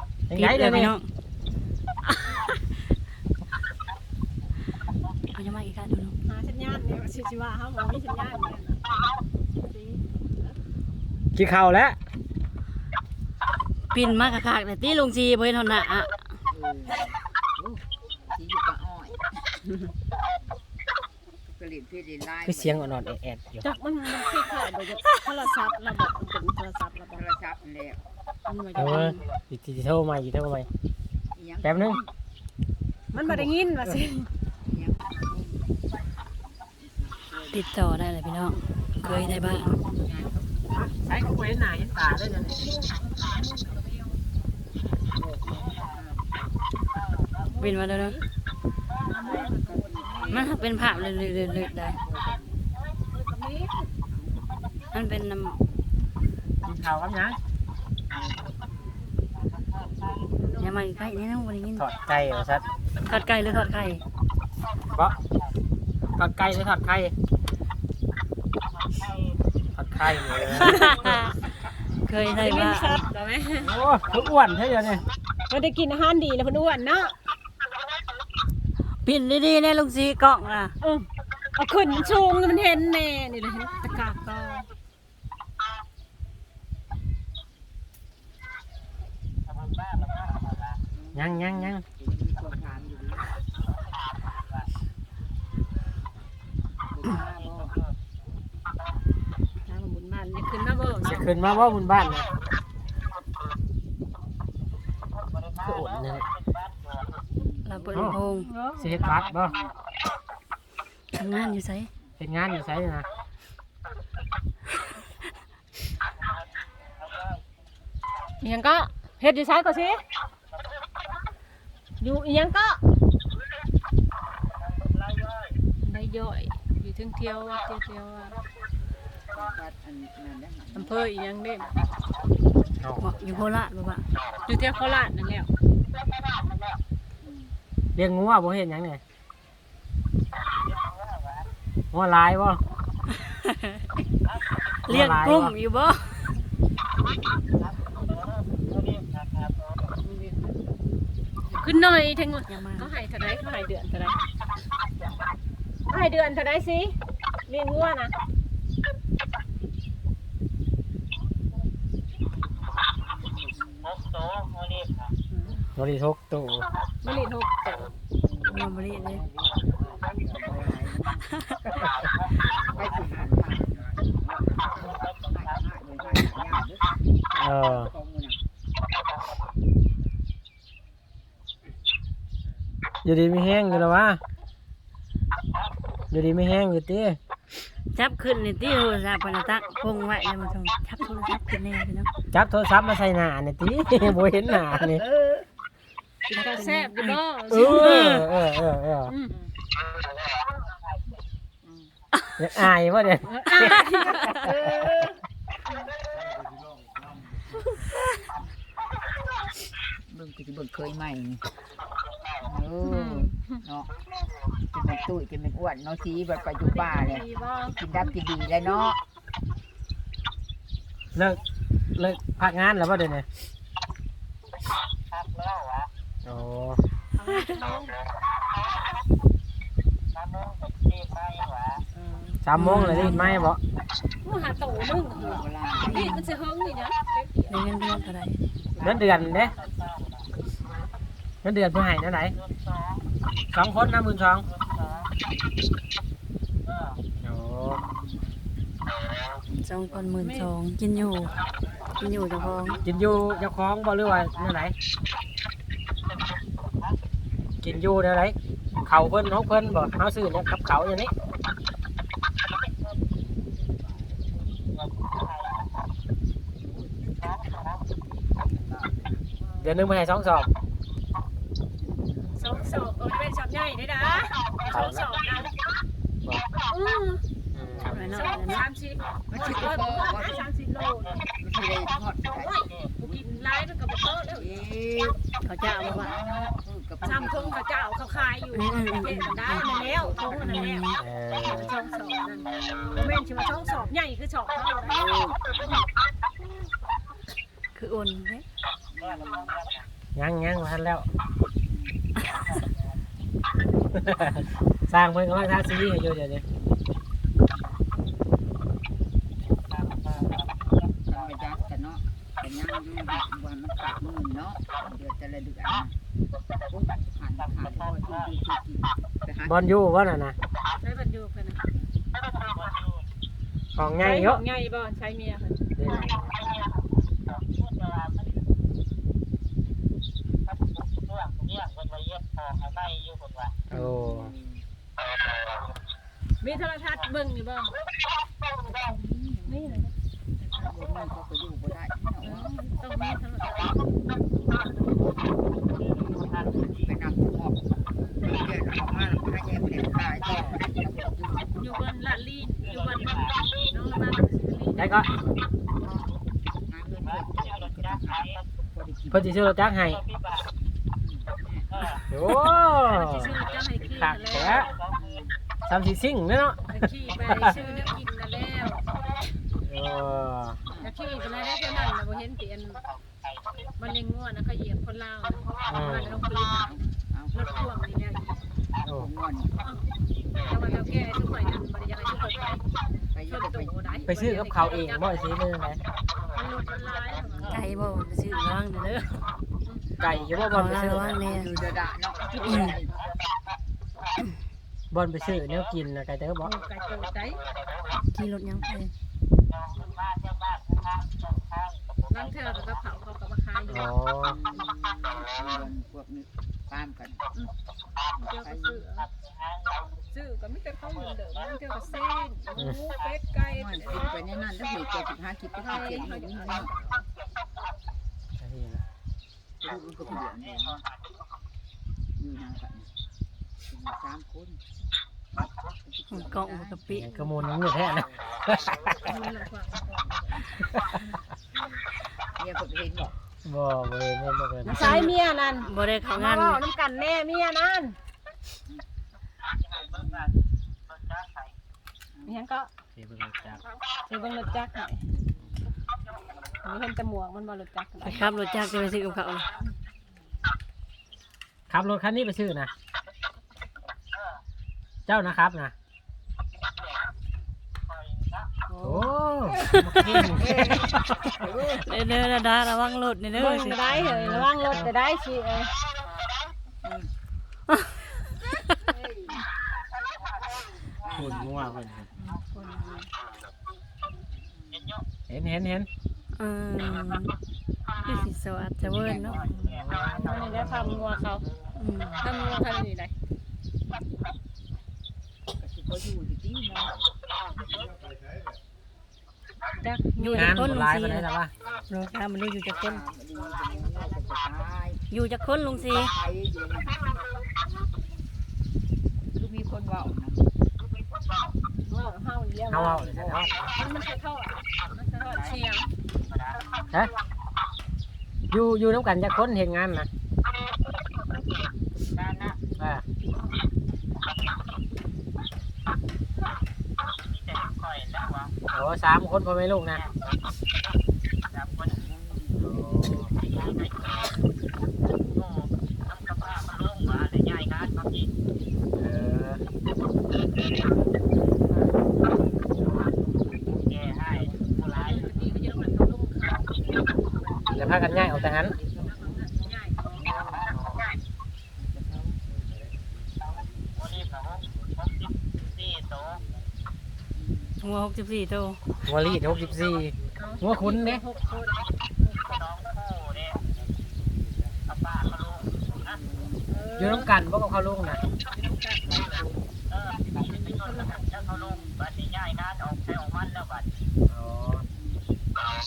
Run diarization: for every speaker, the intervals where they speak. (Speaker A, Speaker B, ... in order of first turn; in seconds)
Speaker A: 0.3-0.9, 11.3-12.0, 22.4-23.6, 28.8-30.7, 31.6-32.0, 33.2-34.0, 40.7-42.7, 56.6-57.4, 61.8-62.6, 66.2-67.1, 69.8-71.2, 73.6-75.0, 91.1-91.8, 101.0-102.3, 105.6-106.3, 107.9-108.2, 108.8-109.5, 112.2-113.0, 137.9-139.0, 141.9-142.6, 144.9-145.5, 165.8-166.7, 177.3-177.9, 183.0-184.2, 186.1-187.2, 192.3-195.0, 197.5-199.2, 202.4-203.9, 221.9-223.3, 226.2-226.8, 232.4-233.6, 238.8-239.5, 241.4-242.3, 243.5-244.4, 247.2-247.8, 252.8-254.7, 257.6-261.1, 269.6-270.5, 274.7-275.0, 277.5-278.0, 290.9-291.7, 300.1-301.1, 303.9-306.4, 319.4-320.3, 323.7-324.4, 325.8-326.4, 333.7-334.3, 354.8-355.1, 359.1-360.0, 362.1-363.3, 363.9-364.7, 365.6-367.6, 369.6-370.6, 375.7-376.2, 384.1-385.8, 390.0-391.2, 394.9-396.5, 403.7-404.4, 418.4-418.8, 426.9-428.8, 433.4-435.0, 442.9-443.6, 451.7-452.7, 455.1-455.7, 458.8-460.8, 463.9-464.9, 471.1-472.1, 475.3-475.9, 479.7-481.0, 490.3-491.5, 502.7-503.7, 508.5-510.1, 512.8-513.0, 518.7-520.1, 522.6-523.3, 529.0-529.6, 537.7-538.8, 549.0-551.2, 557.0-558.2, 564.3-564.8
Speaker B: 0.3-1.1, 5.3-6.2, 13.9-16.2, 28.8-29.2, 37.5-39.8, 47.6-48.2, 50.3-52.0, 54.9-55.6, 60.6-61.9, 63.0-64.0, 70.5-71.3, 72.0-73.0, 79.0-80.7, 107.6-108.5, 111.1-111.9, 133.0-134.0, 143.2-143.6, 144.8-146.4, 152.5-152.9, 168.5-169.2, 187.9-192.1, 196.3-197.2, 232.6-233.4, 235.9-236.3, 237.5-238.4, 249.6-251.4, 252.0-252.8, 277.8-278.6, 285.4-286.1, 288.5-289.7, 290.4-291.0, 297.7-298.4, 387.5-389.3, 390.4-391.7, 392.5-392.8, 398.1-398.9, 426.1-427.1, 434.6-436.6, 448.0-449.5, 459.6-460.6, 461.6-463.8, 472.4-473.1, 476.3-477.3, 478.0-479.6, 481.8-482.2, 490.2-491.3, 491.9-493.0, 495.1-496.1, 547.8-548.8
Speaker C: 6.2-8.8, 9.6-10.0, 23.6-27.2, 28.5-29.2, 33.1-34.3, 42.5-44.2, 47.4-48.2, 49.0-50.6, 53.0-53.9, 60.4-61.3, 70.7-71.3, 72.2-73.7, 75.5-77.2, 80.8-84.7, 99.6-101.3, 108.1-109.0, 118.4-120.0, 122.0-122.8, 125.8-128.4, 130.7-131.8, 134.4-135.5, 150.0-150.5, 151.5-154.2, 155.9-158.1, 165.3-165.6, 167.0-167.9, 196.3-198.2, 199.1-199.3, 203.3-205.0, 212.8-213.6, 216.6-217.8, 227.1-227.9, 231.9-233.1, 234.2-237.9, 250.2-250.5, 269.4-269.7, 272.3-275.5, 276.7-277.2, 278.0-281.2, 282.4-284.6, 287.0-295.0, 320.8-321.6, 324.0-325.6, 336.4-337.7, 339.4-339.9, 342.2-343.8, 351.5-355.1, 362.9-364.8, 366.7-368.8, 370.8-372.8, 373.8-376.7, 377.3-378.4, 380.4-382.6, 383.3-385.1, 386.3-387.5, 396.4-397.4, 402.1-403.9, 408.1-409.1, 410.1-414.1, 415.6-417.0, 428.9-430.7, 434.7-438.0, 442.2-442.7, 444.0-445.0, 446.6-448.2, 463.3-465.7, 480.1-481.4, 482.2-483.1, 489.8-490.7, 501.8-503.1, 503.7-505.9, 534.9-536.7, 538.0-540.2, 550.4-552.6, 556.7-557.3, 558.4-559.0, 560.4-561.5
Speaker D: 16.5-19.2, 21.5-22.9, 27.1-28.1, 31.3-32.1, 34.6-35.6, 36.9-37.6, 39.0-40.6, 45.4-46.3, 49.3-52.5, 54.0-54.9, 58.1-58.6, 90.9-93.3, 96.9-97.8, 107.4-108.1, 109.0-109.7, 129.3-131.0, 137.2-137.5, 163.0-164.0, 168.2-168.8, 170.0-171.3, 172.5-176.9, 177.6-178.4, 201.6-201.9, 210.1-211.6, 212.4-213.9, 214.7-219.0, 235.1-236.1, 238.6-239.7, 247.7-248.3, 249.8-250.1, 252.0-252.9, 266.6-267.8, 268.3-269.2, 272.0-272.3, 279.3-280.5, 281.3-282.6, 284.2-287.6, 289.7-290.4, 292.9-293.9, 294.8-295.9, 298.9-299.7, 301.7-302.0, 307.5-307.8, 311.1-315.9, 316.7-319.6, 333.7-334.6, 338.7-339.9, 340.4-342.5, 346.6-347.7, 348.2-351.6, 356.6-359.3, 361.0-361.9, 364.9-365.4, 370.6-370.9, 376.5-377.3, 378.8-379.6, 380.6-381.0, 383.1-384.1, 391.2-392.9, 404.2-407.2, 408.4-408.8, 413.5-416.7, 419.6-420.8, 422.2-422.9, 423.6-424.6, 425.8-428.1, 432.4-433.1, 439.9-440.3, 442.1-442.4, 460.3-461.9, 466.8-467.1, 468.8-469.4, 471.0-471.6, 474.4-475.0, 478.8-479.9, 485.6-487.0, 492.7-495.0, 495.6-497.1, 499.3-500.4, 503.1-503.4, 506.5-506.9, 521.8-523.3, 533.8-535.1, 537.6-539.7, 540.2-540.7, 541.8-542.4, 547.4-547.8, 556.0-556.7, 559.0-559.6, 561.6-561.9, 564.9-565.2